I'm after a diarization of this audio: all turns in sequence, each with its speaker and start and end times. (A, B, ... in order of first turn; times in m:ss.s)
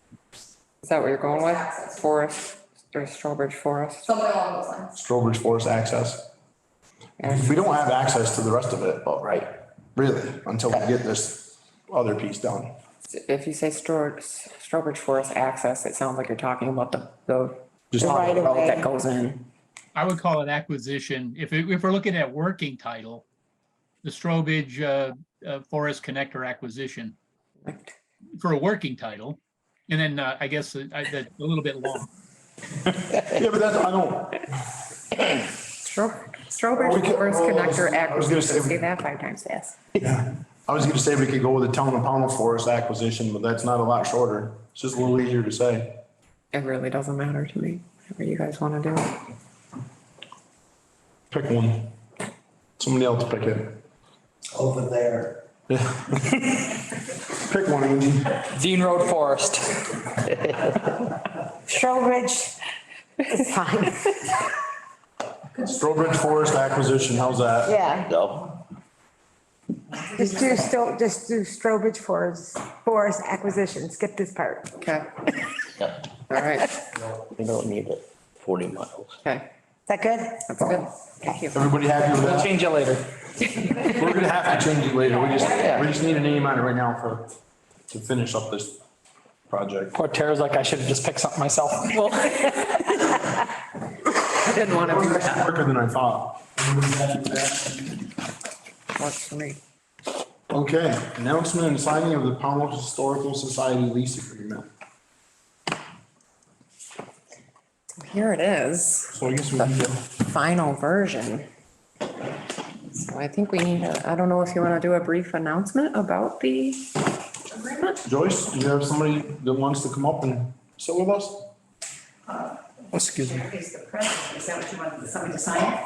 0:00.8-0:04.1 A
0:01.2-0:02.4 B
0:04.0-0:04.9 B
0:05.0-0:06.2 C
0:07.2-0:07.6 A
0:07.2-0:09.1 C
0:09.1-0:09.5 D
0:09.9-0:12.7 C
0:13.1-0:19.5 A
0:17.9-0:18.4 C
0:18.0-0:18.9 E
0:20.0-0:23.2 F
0:24.0-0:27.2 F
0:27.6-0:27.9 A
0:28.4-0:32.1 F
0:33.1-0:34.5 C
0:35.8-0:39.8 A
0:36.7-0:38.8 C
0:40.0-0:46.0 C
0:46.5-0:49.2 A
0:51.3-0:52.0 C
0:52.8-0:53.8 C
0:54.6-0:55.2 D
0:55.7-0:56.4 C
0:57.3-0:58.4 C
0:58.5-0:59.7 G
1:00.3-1:00.7 D
1:01.7-1:02.5 E
1:03.3-1:04.1 E
1:05.6-1:06.6 B
1:05.6-1:07.8 C
1:07.7-1:08.1 E
1:07.9-1:08.6 D
1:10.1-1:14.7 E
1:14.8-1:15.1 A
1:16.3-1:16.7 A
1:17.3-1:19.2 D
1:19.9-1:20.4 E
1:20.5-1:21.6 A
1:21.5-1:22.5 C
1:22.3-1:23.0 G
1:23.8-1:27.3 C
1:25.5-1:25.9 D
1:27.9-1:28.8 C
1:29.5-1:30.0 C
1:29.9-1:31.9 G
1:32.0-1:32.8 A
1:34.4-1:35.4 A
1:34.7-1:37.8 C
1:39.0-1:39.6 A
1:40.5-1:44.7 C
1:48.0-1:51.5 A
1:49.1-1:50.0 C
1:52.9-1:56.8 A
1:58.0-2:01.5 C
2:03.0-2:03.4 C